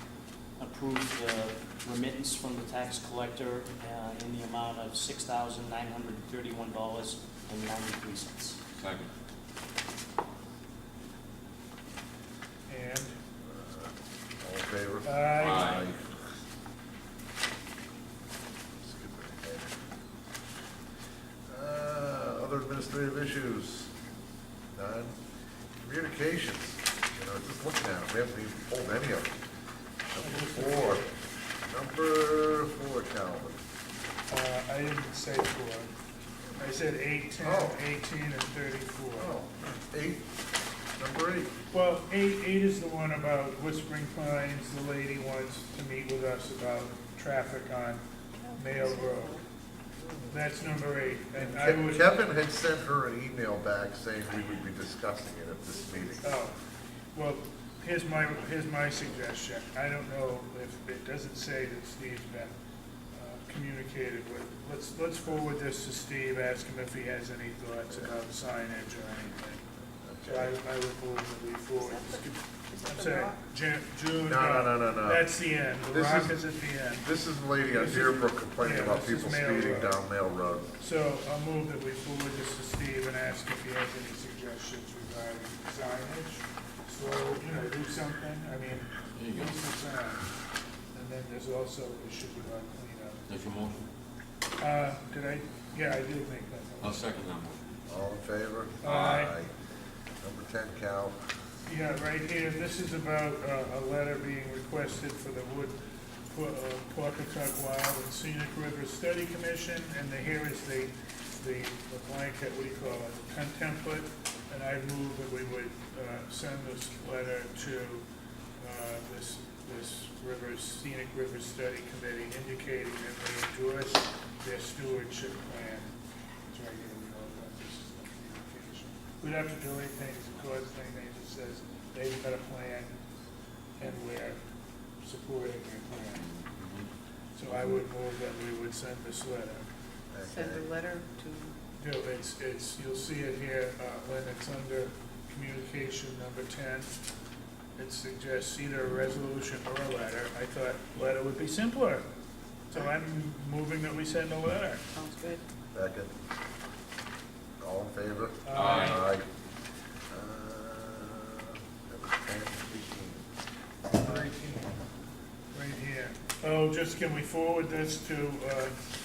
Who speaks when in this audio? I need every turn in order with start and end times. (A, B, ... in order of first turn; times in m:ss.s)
0:00.6-0:08.6 A
0:08.8-0:09.1 B
0:12.7-0:13.2 C
0:13.4-0:13.9 D
0:14.4-0:16.1 D
0:15.0-0:15.8 C
0:15.4-0:15.8 B
0:18.8-0:19.7 D
0:21.5-0:23.9 D
0:24.7-0:25.2 D
0:25.8-0:29.4 D
0:30.1-0:31.0 D
0:30.3-0:31.0 C
0:31.7-0:33.6 D
0:34.3-0:35.9 C
0:36.6-0:39.3 C
0:37.4-0:37.8 D
0:39.2-0:40.2 D
0:41.0-0:41.5 D
0:41.7-0:48.0 C
0:48.4-0:49.4 E
0:48.6-0:49.3 C
0:50.3-0:52.0 C
0:51.4-0:56.4 D
0:55.8-0:56.2 E
0:56.2-0:56.5 C
0:57.1-1:02.5 C
1:03.1-1:09.7 C
1:10.0-1:10.5 D
1:10.3-1:17.0 C
1:11.8-1:13.5 E
1:14.2-1:20.7 D
1:17.7-1:20.0 C
1:20.8-1:30.2 C
1:29.2-1:29.5 B
1:30.9-1:33.2 C
1:33.3-1:33.9 B
1:34.6-1:37.0 C
1:36.8-1:37.6 B
1:37.9-1:39.5 D
1:38.8-1:39.3 C
1:38.8-1:39.2 B
1:40.2-1:41.2 D
1:41.6-1:45.8 C
1:46.3-1:58.0 C
1:58.6-2:05.9 C
2:06.5-2:13.0 C
2:13.8-2:14.4 C
2:15.0-2:16.3 C
2:16.6-2:16.9 B
2:17.4-2:19.7 C
2:20.1-2:20.7 D
2:20.2-2:21.5 E
2:21.8-2:26.9 C
2:27.8-2:32.0 C
2:32.7-2:34.8 C
2:34.9-2:35.4 E
2:35.7-2:36.1 D
2:37.6-2:39.2 D
2:38.4-2:39.0 C
2:38.5-2:39.0 B
2:40.1-2:43.2 D
2:43.9-2:44.4 D
2:44.1-2:44.4 C
2:45.5-2:48.8 C